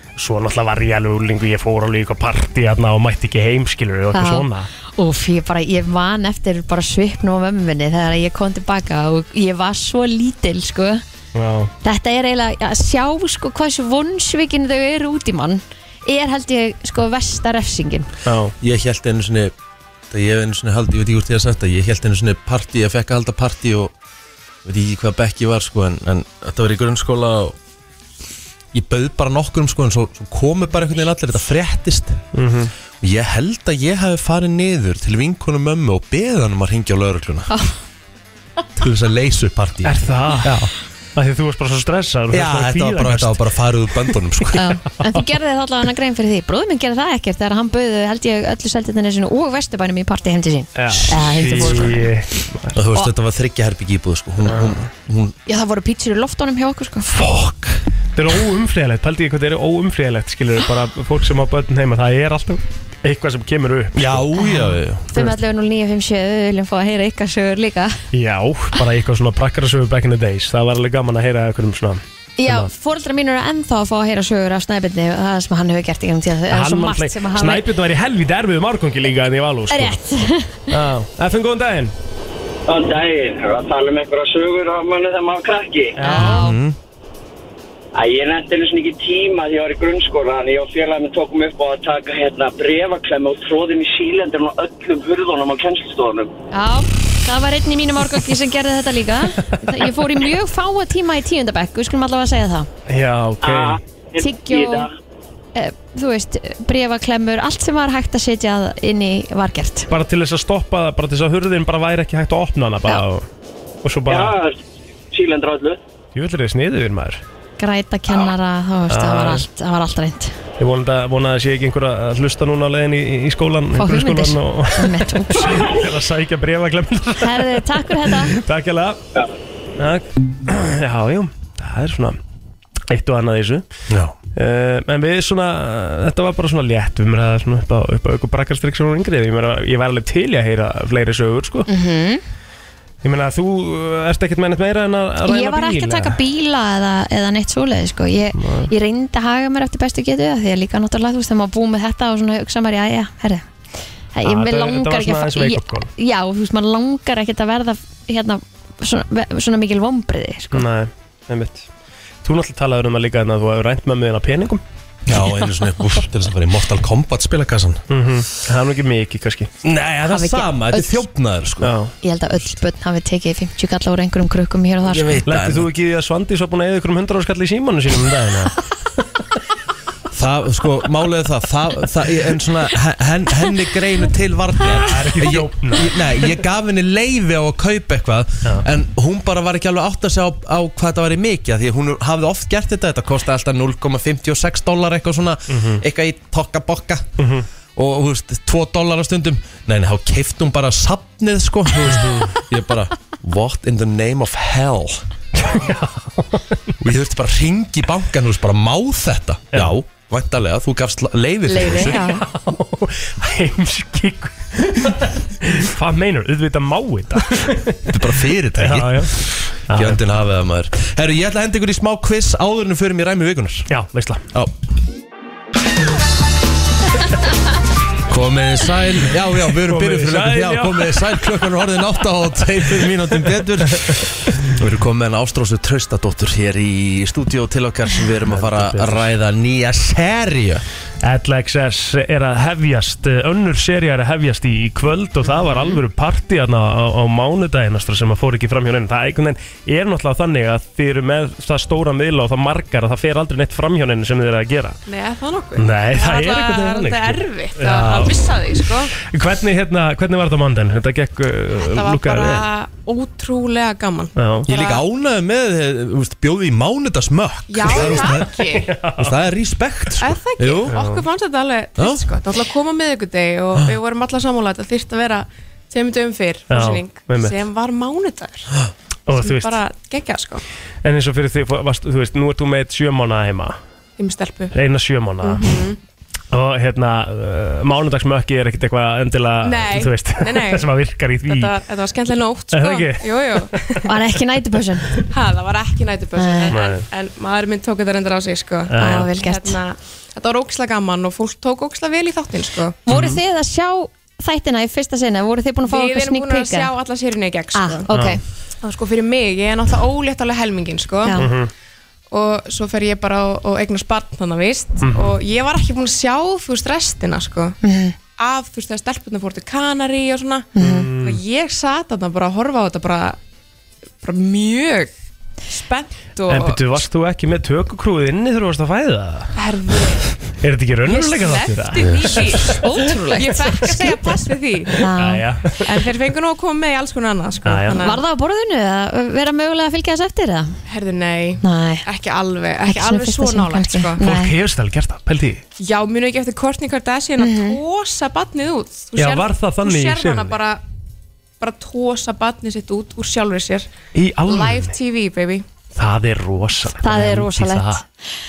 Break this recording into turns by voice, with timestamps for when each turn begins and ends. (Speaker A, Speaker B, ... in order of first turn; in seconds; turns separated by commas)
Speaker A: 0.2-4.7, Speaker B: 4.1-11.0, Speaker A: 11.3-11.7, Speaker B: 11.8-18.1, Speaker A: 18.2-18.5, Speaker C: 18.6-19.5, Speaker C: 20.1-23.9, Speaker C: 24.6-27.6, Speaker C: 28.7-32.2, Speaker A: 32.3-32.7, Speaker C: 33.0-37.5, Speaker B: 37.5-37.8, Speaker C: 38.8-40.7, Speaker A: 39.8-43.4, Speaker C: 42.3-44.7, Speaker B: 44.5-52.1, Speaker A: 50.8-52.8, Speaker C: 50.9-51.9, Speaker C: 52.7-55.4, Speaker A: 54.5-54.8, Speaker B: 55.5-57.2, Speaker A: 58.1-64.2, Speaker C: 64.0-65.3, Speaker B: 64.4-68.0, Speaker A: 68.1-72.7, Speaker B: 72.4-77.7, Speaker A: 76.5-80.0, Speaker B: 79.7-80.7, Speaker A: 80.7-81.9, Speaker D: 82.7-86.0, Speaker A: 86.0-86.5, Speaker B: 86.0-86.6, Speaker C: 86.2-86.8, Speaker D: 88.0-96.3, Speaker B: 96.5-102.7, Speaker A: 102.9-103.8, Speaker D: 103.4-104.9, Speaker B: 104.2-104.9, Speaker B: 105.6-109.9, Speaker A: 109.9-113.2, Speaker A: 113.8-114.4, Speaker D: 114.1-114.6, Speaker D: 115.1-115.8, Speaker A: 116.2-117.2, Speaker B: 117.6-120.3, Speaker A: 118.9-119.5, Speaker A: 120.6-129.0, Speaker B: 123.8-125.7, Speaker B: 127.2-128.3, Speaker A: 129.8-132.2, Speaker A: 132.9-133.6, Speaker C: 133.9-134.2, Speaker A: 134.4-141.7, Speaker B: 141.7-142.2, Speaker A: 143.0-146.2, Speaker B: 145.3-153.5, Speaker A: 148.4-148.7, Speaker B: 154.1-160.7, Speaker A: 154.2-155.9, Speaker A: 160.5-161.7, Speaker A: 162.2-164.6, Speaker C: 165.1-167.8, Speaker A: 167.9-169.5, Speaker C: 169.6-171.7, Speaker B: 170.1-171.0, Speaker A: 171.6-171.9, Speaker B: 172.0-175.2, Speaker C: 174.8-175.7, Speaker A: 175.3-178.6, Speaker C: 180.1-197.2, Speaker A: 184.7-185.9, Speaker A: 195.5-195.8, Speaker A: 197.2-197.5, Speaker C: 197.8-205.0, Speaker A: 201.9-202.3, Speaker A: 205.4-206.6, Speaker C: 206.8-212.1, Speaker B: 211.5-212.3, Speaker A: 211.8-218.0, Speaker C: 217.9-223.7, Speaker A: 218.6-220.0, Speaker A: 223.7-224.2, Speaker C: 228.1-240.7, Speaker A: 229.6-231.2, Speaker A: 238.3-239.1, Speaker A: 241.0-254.8, Speaker E: 254.9-258.9, Speaker A: 255.6-258.2, Speaker A: 259.1-262.5, Speaker E: 261.6-264.8, Speaker A: 264.2-264.5, Speaker C: 264.5-268.3, Speaker E: 267.5-268.7, Speaker A: 267.7-269.1, Speaker C: 269.0-270.8, Speaker E: 270.0-278.5, Speaker A: 270.7-271.0, Speaker C: 271.8-272.0, Speaker A: 276.5-277.4, Speaker A: 279.1-279.6, Speaker E: 279.1-280.4, Speaker A: 280.8-283.6, Speaker E: 284.0-284.5, Speaker A: 284.5-285.6, Speaker E: 285.2-285.8, Speaker A: 286.3-291.6, Speaker E: 289.4-290.7, Speaker E: 291.2-293.8, Speaker A: 292.5-293.9, Speaker B: 293.8-295.0, Speaker E: 295.1-302.8, Speaker B: 296.2-296.6, Speaker A: 296.5-296.9, Speaker A: 298.7-299.1, Speaker B: 298.8-299.6, Speaker B: 302.9-306.7, Speaker A: 302.9-303.2, Speaker E: 305.6-307.9, Speaker B: 307.5-308.2, Speaker A: 307.9-308.2, Speaker E: 308.6-311.2, Speaker B: 311.0-311.3, Speaker A: 311.2-311.5, Speaker E: 312.1-317.6, Speaker A: 314.8-315.2, Speaker B: 317.6-317.9, Speaker E: 318.2-323.2, Speaker B: 320.6-320.9, Speaker A: 320.6-321.2, Speaker E: 324.0-324.9, Speaker E: 325.5-326.6, Speaker A: 326.3-329.3, Speaker E: 329.4-330.2, Speaker A: 330.4-332.6, Speaker E: 330.9-334.9, Speaker B: 332.6-333.7, Speaker B: 334.8-335.2, Speaker A: 335.0-335.7, Speaker E: 335.6-338.0, Speaker A: 337.4-337.9, Speaker B: 337.8-340.5, Speaker E: 340.7-344.1, Speaker B: 341.4-341.9, Speaker B: 342.7-344.3, Speaker A: 344.0-345.4, Speaker E: 345.6-350.6, Speaker B: 347.2-347.6, Speaker A: 349.0-350.4, Speaker E: 351.4-353.7, Speaker A: 353.9-354.7, Speaker E: 354.3-355.4, Speaker A: 355.8-357.8, Speaker B: 356.8-357.9